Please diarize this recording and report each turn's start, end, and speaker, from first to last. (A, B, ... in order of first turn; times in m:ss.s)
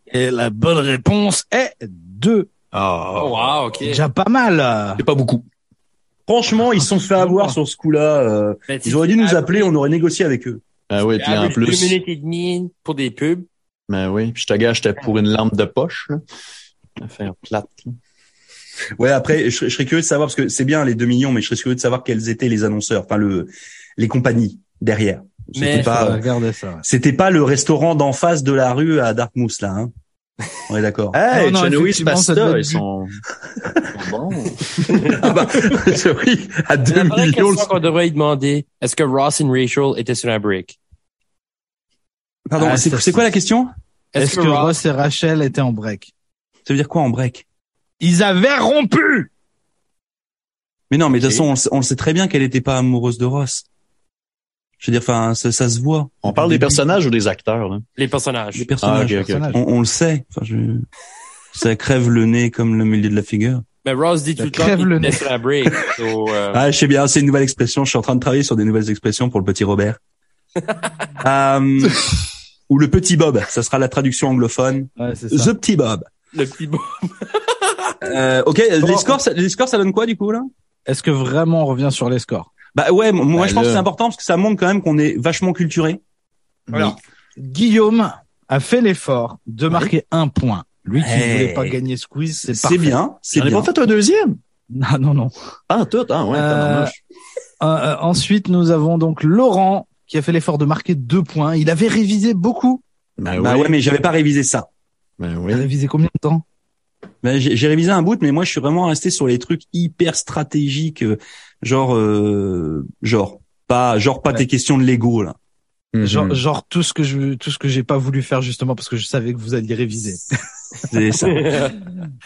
0:00.1-0:02.5 A
0:02.7-0:03.6 B
0:03.2-0:04.0 C
0:03.8-0:05.0 A
0:05.0-0:05.4 B
0:06.3-0:10.6 D
0:07.1-0:07.6 A
0:08.7-0:09.7 C
0:10.9-0:12.0 B
0:11.2-0:13.4 C
0:13.9-0:16.2 B
0:17.0-0:18.0 B
0:19.0-0:26.2 D
0:25.6-0:26.1 C
0:25.7-0:26.8 A
0:26.8-0:29.9 D
0:30.7-0:31.2 D
0:31.1-0:33.2 B
0:31.3-0:32.8 A
0:33.6-0:34.0 D
0:33.9-0:35.2 B
0:34.9-0:37.7 D
0:36.9-0:40.8 C
0:42.5-0:43.7 D
0:42.6-0:43.3 A
0:44.1-0:44.8 C
0:44.2-0:46.1 A
0:46.6-0:47.4 D
0:48.0-0:49.3 A
0:50.9-0:53.6 D
0:51.1-0:51.4 B
0:54.8-0:56.8 D
0:56.2-0:57.8 B
0:58.0-0:58.7 C
0:58.6-1:00.9 D
0:58.8-0:59.5 B
0:59.1-0:59.6 A
1:01.5-1:03.6 D
1:03.8-1:06.6 C
1:04.4-1:05.3 A
1:06.5-1:10.0 D
1:11.2-1:16.1 D
1:15.0-1:15.5 A
1:16.3-1:18.0 C
1:18.0-1:20.5 D
1:18.8-1:19.2 A
1:20.9-1:22.5 A
1:22.7-1:26.0 D
1:23.3-1:23.9 B
1:26.7-1:27.0 B
1:26.7-1:33.0 A
1:31.0-1:31.8 D
1:32.4-1:33.7 D
1:33.3-1:34.4 B
1:34.7-1:35.3 A
1:35.7-1:37.0 B
1:36.3-1:36.9 A
1:37.6-1:42.8 A
1:43.2-1:43.8 B
1:43.4-1:44.7 D
1:45.2-1:45.7 B
1:45.5-1:46.4 A
1:47.2-1:55.4 D
1:55.9-1:56.4 B
1:56.0-2:00.4 A
2:00.8-2:01.8 D